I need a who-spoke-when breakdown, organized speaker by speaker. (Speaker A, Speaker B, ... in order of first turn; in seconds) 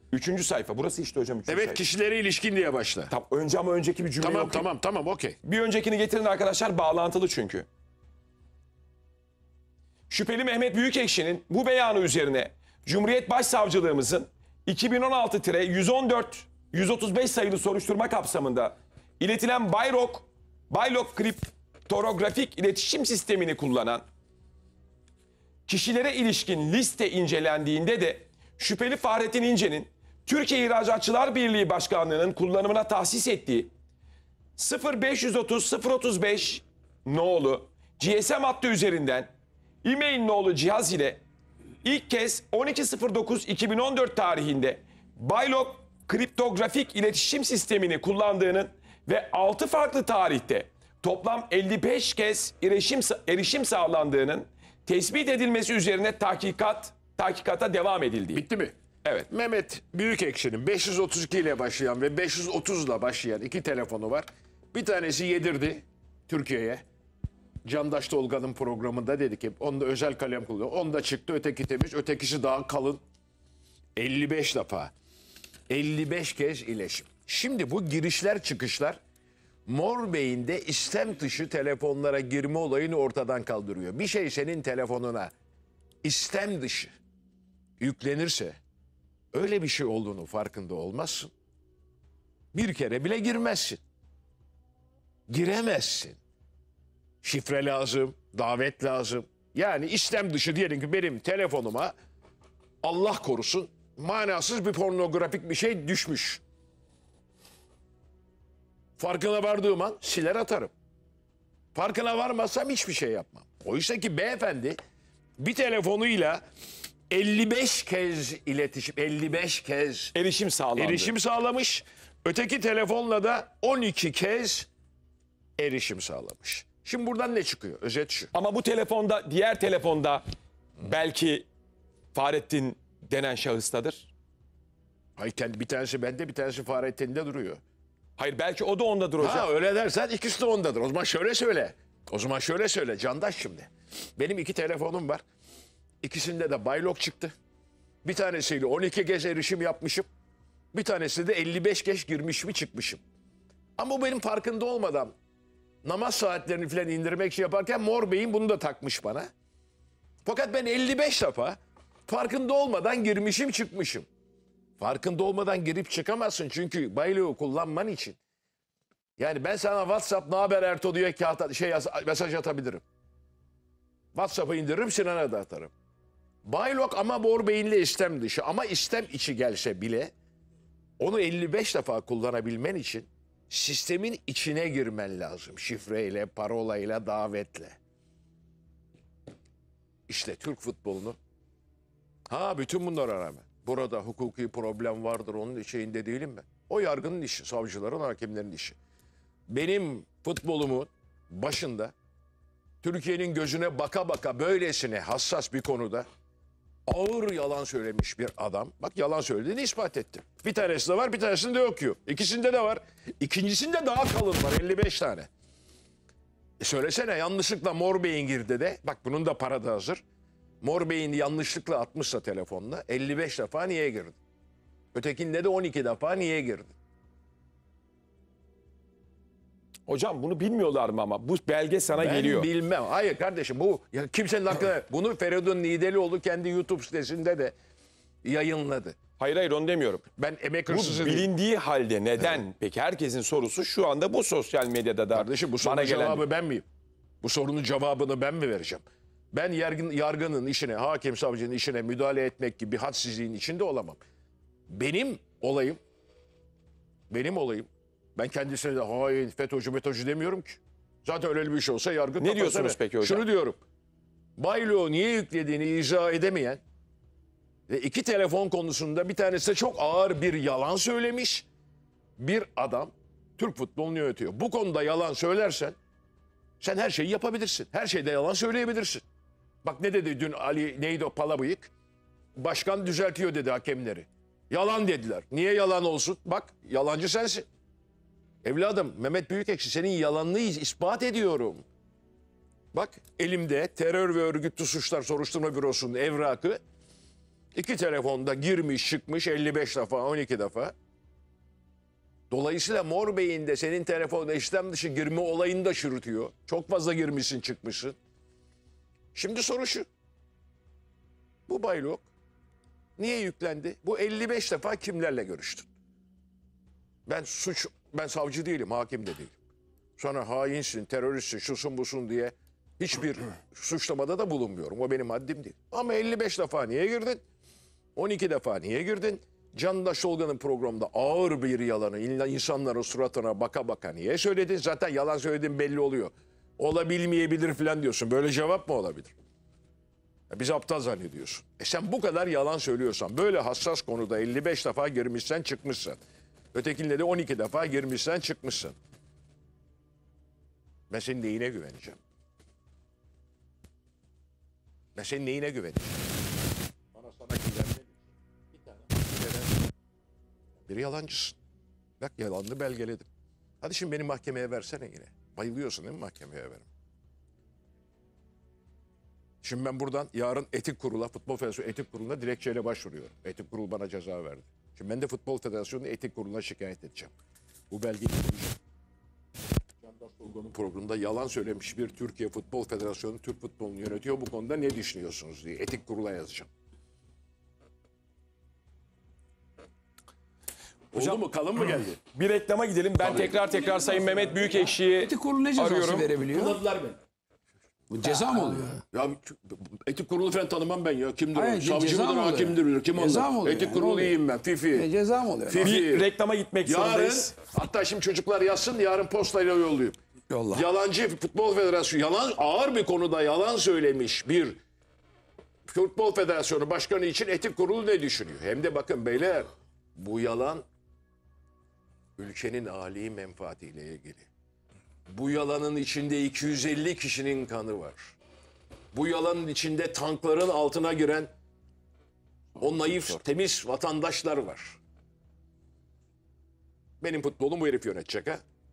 Speaker A: 0.1-1.8, 3.1-4.7, 5.4-7.7, 10.1-24.0, 25.7-33.7, 34.6-39.3, 39.8-41.2, 41.8-58.4, 120.1-121.1, 128.3-130.2, 130.8-131.4, 132.1-134.1, 138.2-139.5, 229.9-232.5, 239.2-240.0, 240.7-246.2, 262.2-263.2, 390.9-391.2, 392.1-396.1, 405.6-407.3
Speaker B: 1.5-3.1, 4.2-5.3, 58.3-58.7, 59.3-66.8, 67.6-73.0, 74.0-74.9, 75.7-79.0, 79.7-85.3, 86.0-86.9, 87.8-88.6, 89.3-91.3, 92.5-93.8, 95.3-96.2, 97.2-101.9, 102.8-106.4, 109.0-110.7, 111.7-114.8, 115.4-116.4, 117.1-120.1, 120.8-124.7, 125.6-128.3, 135.2-137.6, 139.2-145.2, 146.0-147.3, 148.0-150.1, 150.7-153.0, 153.8-155.1, 155.8-159.3, 160.2-164.1, 164.8-168.2, 169.2-172.8, 174.1-175.7, 176.4-180.1, 181.0-187.8, 190.1-191.2, 192.3-198.8, 199.5-201.9, 202.8-206.1, 206.9-215.3, 216.6-220.0, 220.6-224.2, 224.9-226.7, 231.9-237.5, 238.2-239.0, 240.2-241.3, 245.1-246.6, 247.2-254.0, 254.7-255.8, 257.1-263.6, 264.4-266.6, 267.7-271.4, 272.2-275.8, 276.6-279.0, 279.6-281.7, 282.4-287.4, 288.4-291.6, 292.7-296.6, 297.5-300.7, 302.3-307.9, 309.1-309.9, 311.5-312.1, 313.0-315.6, 317.1-319.4, 320.0-327.2, 327.9-339.1, 340.3-346.0, 346.5-348.8, 350.9-352.0, 354.9-356.1, 356.9-357.9, 358.5-359.6, 360.6-361.4, 362.0-363.1, 363.6-366.7, 369.4-377.1, 377.7-378.6, 379.8-386.5, 390.9-392.0, 393.0-393.4, 396.2-397.0, 398.9-404.9, 405.5-406.1, 406.6-410.0, 410.5-414.6, 415.7-420.6, 422.2-424.3, 425.1-428.1, 428.9-431.3, 432.6-434.8, 437.0-438.4
Speaker C: 395.0-396.6, 397.9-398.8, 401.3-404.2, 404.7-405.8, 410.3-410.6